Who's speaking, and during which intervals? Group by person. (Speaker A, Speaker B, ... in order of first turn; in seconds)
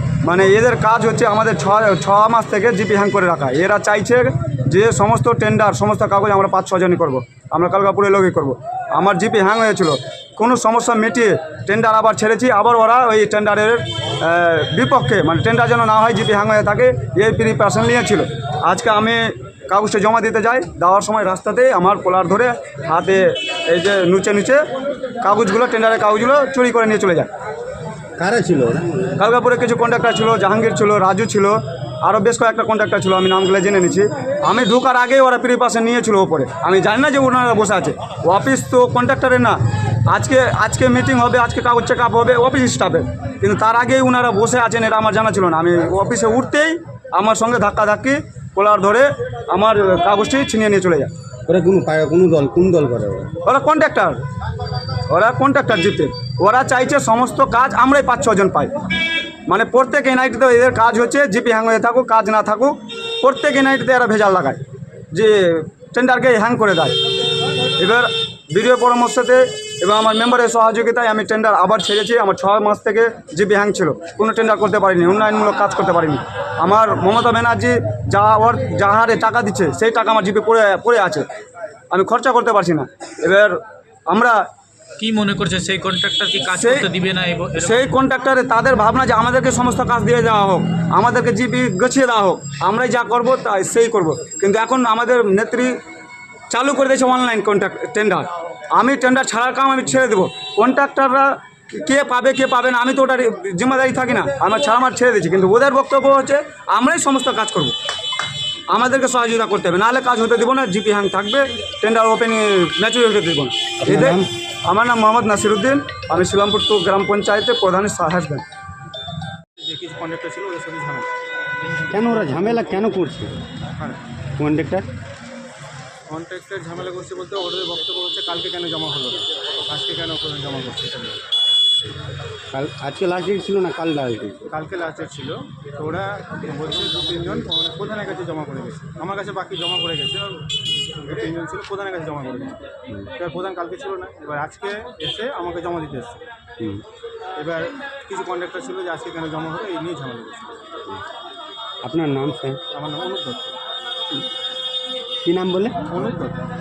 Speaker A: 0.2-24.6, 25.2-27.3, 29.2-51.1, 53.4-54.2, 55.1-58.7, 59.5-64.6, 65.1-67.0, 67.8-81.2, 81.9-83.6, 84.1-84.4, 86.5-86.9, 87.6-95.7, 96.5-107.7, 108.7-118.4
Speaker B: 28.2-29.1, 51.5-53.3, 113.8-114.3, 121.9-123.3, 124.4-124.8, 132.5-134.4, 146.6-146.8, 151.8-152.6, 155.2-155.8
Speaker C: 85.0-87.9
Speaker D: 119.6-121.1, 126.1-131.2, 134.5-142.6, 143.2-146.2, 147.4-150.6, 152.7-153.6, 155.9-156.4